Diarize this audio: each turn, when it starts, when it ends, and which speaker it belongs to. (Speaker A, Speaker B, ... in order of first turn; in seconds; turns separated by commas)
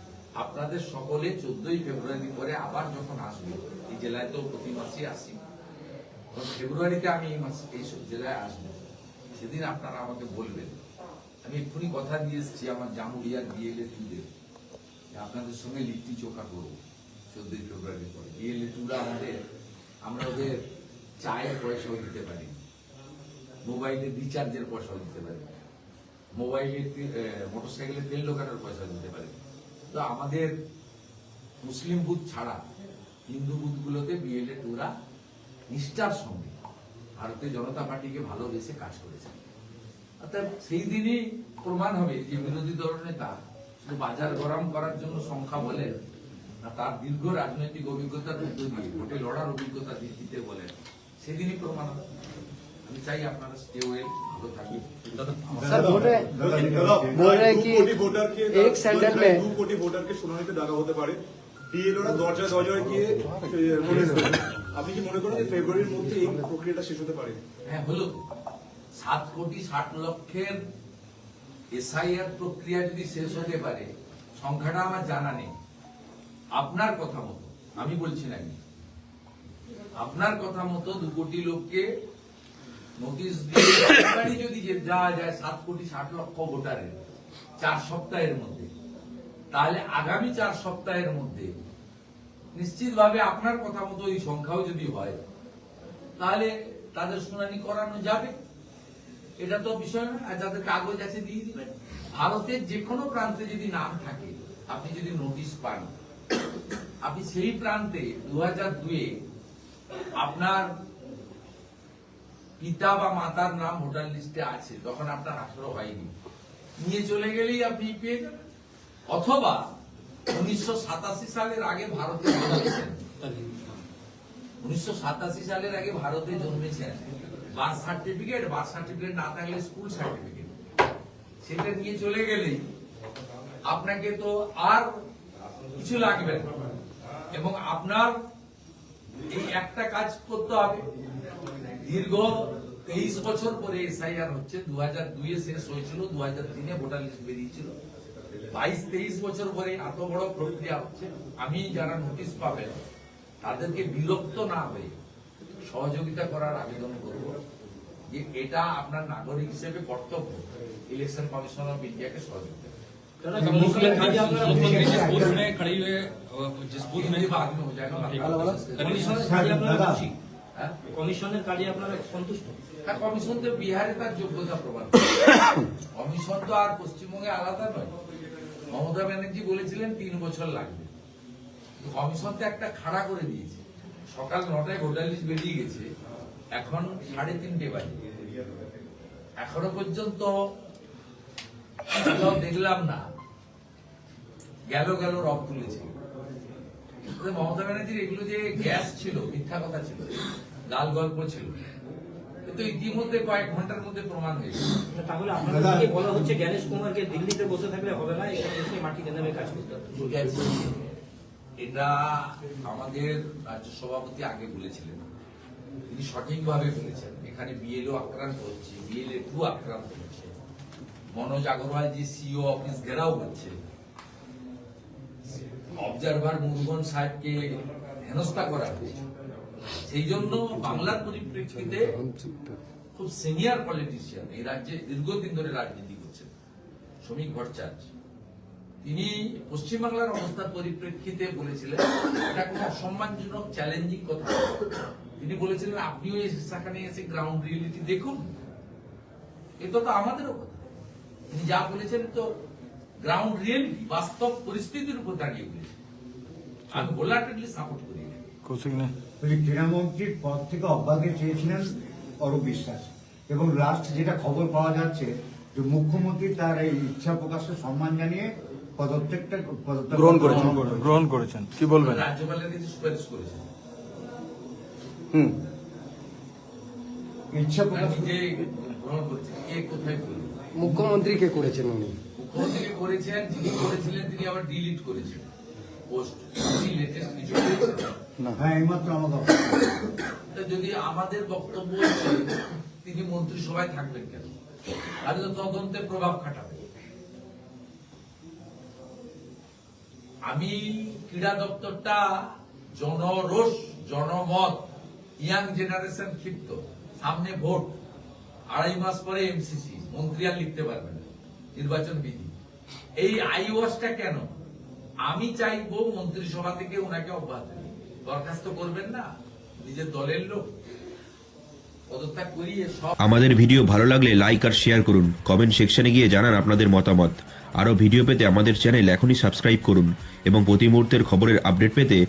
Speaker A: 0.4-5.4, Speaker A: 6.3-8.8, Speaker A: 9.3-10.8, Speaker A: 11.4-14.3, Speaker A: 15.1-16.8, Speaker A: 17.3-19.4, Speaker A: 20.0-20.6, Speaker A: 21.2-22.6, Speaker A: 23.6-25.5, Speaker A: 26.4-29.4, Speaker A: 29.9-30.5, Speaker A: 31.6-32.6, Speaker A: 33.3-34.9, Speaker A: 35.7-36.5, Speaker A: 37.2-39.4, Speaker A: 40.2-46.0, Speaker A: 46.6-52.0, Speaker A: 52.9-55.9, Speaker B: 55.5-57.3, Speaker C: 55.6-56.3, Speaker D: 55.6-67.4, Speaker C: 57.1-59.4, Speaker C: 62.2-64.5, Speaker C: 65.3-66.5, Speaker A: 67.6-68.3, Speaker A: 69.0-70.6, Speaker A: 71.7-75.5, Speaker A: 76.5-78.6, Speaker A: 80.0-81.9, Speaker A: 83.0-87.0, Speaker A: 87.6-88.7, Speaker A: 89.5-91.5, Speaker A: 92.5-95.2, Speaker A: 96.2-98.4, Speaker A: 99.4-105.9, Speaker A: 107.0-109.2, Speaker A: 110.2-110.7, Speaker A: 112.6-116.1, Speaker A: 116.8-118.4, Speaker A: 119.1-119.7, Speaker A: 120.3-123.0, Speaker A: 124.6-130.5, Speaker A: 131.4-132.7, Speaker A: 133.7-134.9, Speaker A: 135.7-136.5, Speaker A: 137.3-138.2, Speaker A: 139.3-140.8, Speaker A: 141.8-147.8, Speaker A: 148.5-152.8, Speaker A: 153.4-154.9, Speaker A: 155.6-157.4, Speaker A: 158.1-162.7, Speaker E: 163.2-165.4, Speaker B: 163.3-165.5, Speaker F: 163.8-167.3, Speaker A: 166.9-170.8, Speaker F: 168.0-169.5, Speaker E: 168.8-169.9, Speaker B: 169.1-170.1, Speaker E: 170.9-172.6, Speaker A: 172.8-175.4, Speaker A: 175.9-177.9, Speaker A: 178.7-180.9, Speaker A: 181.8-185.9, Speaker A: 186.5-188.0, Speaker A: 189.4-190.3, Speaker A: 191.9-193.1, Speaker A: 194.7-195.9, Speaker A: 197.1-201.6, Speaker A: 202.4-204.7, Speaker E: 204.9-209.9, Speaker B: 205.3-206.3, Speaker A: 209.9-210.9, Speaker A: 211.6-215.1, Speaker A: 215.9-220.3, Speaker A: 221.1-223.6, Speaker A: 225.7-229.0, Speaker A: 229.8-231.9, Speaker C: 231.7-232.6, Speaker A: 232.9-236.3, Speaker A: 237.0-237.9, Speaker A: 238.8-244.7, Speaker A: 245.2-248.2, Speaker A: 249.6-250.6, Speaker A: 251.3-252.3, Speaker A: 253.0-255.8, Speaker A: 256.7-258.2, Speaker B: 259.2-271.0, Speaker D: 270.2-270.5, Speaker A: 271.8-273.5, Speaker B: 277.3-278.1, Speaker A: 277.7-280.3, Speaker C: 280.6-281.9, Speaker B: 280.6-280.9, Speaker A: 282.1-285.3, Speaker A: 285.9-287.9, Speaker B: 288.3-289.7, Speaker A: 290.3-294.3, Speaker A: 295.0-296.6, Speaker A: 300.2-304.7, Speaker A: 305.2-307.8, Speaker A: 308.5-312.3, Speaker A: 313.0-314.2, Speaker A: 315.1-319.1, Speaker A: 319.6-320.4, Speaker A: 321.9-322.9, Speaker G: 323.1-329.9, Speaker F: 325.9-326.9, Speaker F: 329.3-329.8, Speaker G: 330.5-331.9